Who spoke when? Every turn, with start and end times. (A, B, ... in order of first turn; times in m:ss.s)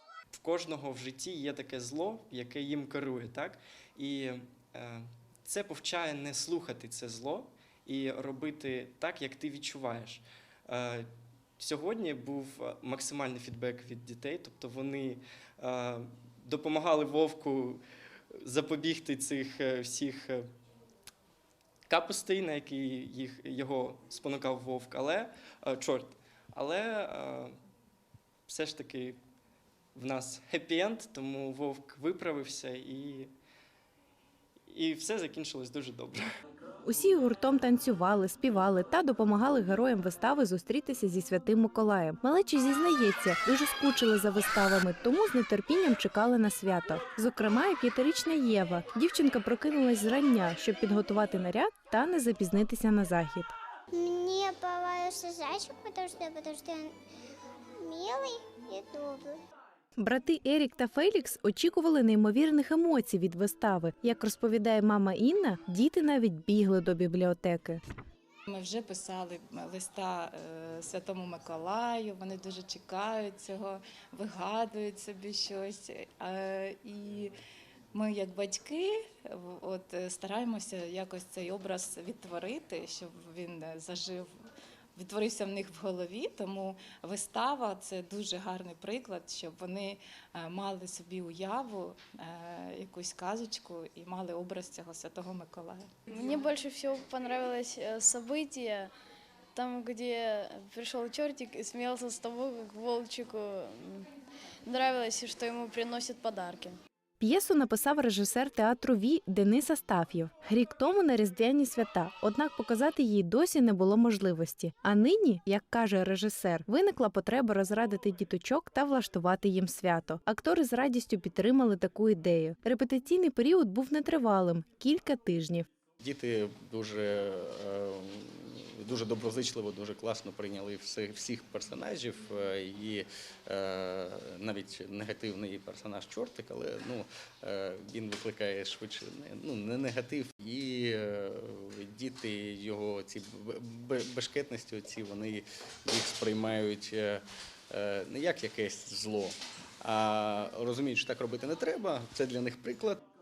0:00.3-0:17.8 A
0:18.4-0:20.5 A
0:21.9-0:27.5 A
0:28.5-0:29.2 A
0:29.9-0:33.3 A
0:34.7-0:36.2 A
0:36.8-0:53.5 B
0:53.9-0:56.9 C
0:57.8-0:59.4 C
1:00.0-1:07.8 B
1:08.5-1:17.3 D
1:17.9-1:24.3 D
1:25.0-1:35.9 D
1:36.1-1:38.9 E
1:39.5-1:44.1 E
1:44.6-1:46.8 E
1:47.2-2:05.7 B
2:06.0-2:33.0 F